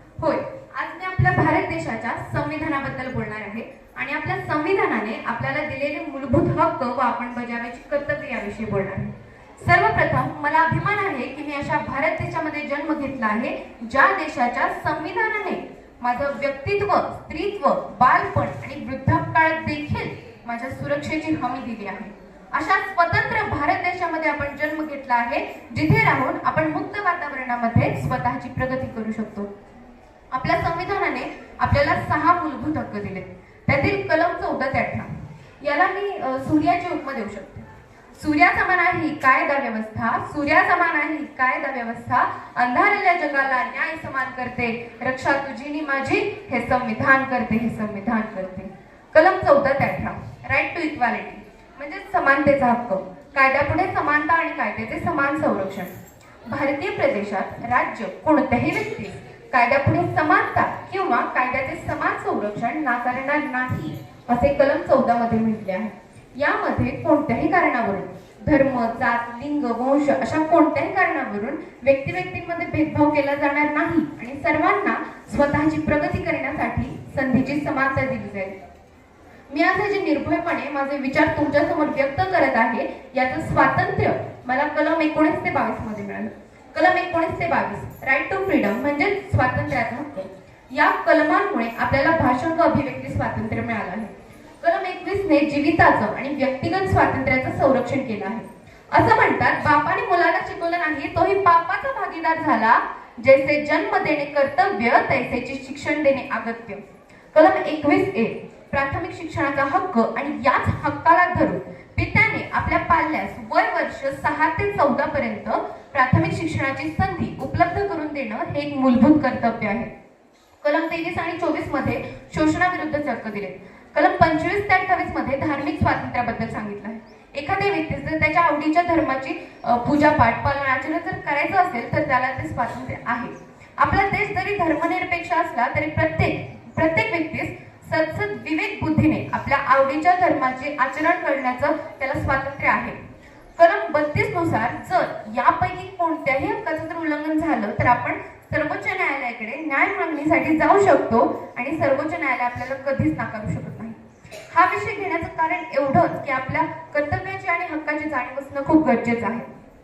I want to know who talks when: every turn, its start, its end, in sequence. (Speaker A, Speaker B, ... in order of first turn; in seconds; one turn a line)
Speaker A: 0.2-29.5
Speaker A: 30.3-55.9
Speaker A: 56.5-78.5
Speaker A: 79.5-106.8
Speaker A: 107.3-119.9
Speaker A: 120.6-143.0
Speaker A: 143.6-159.5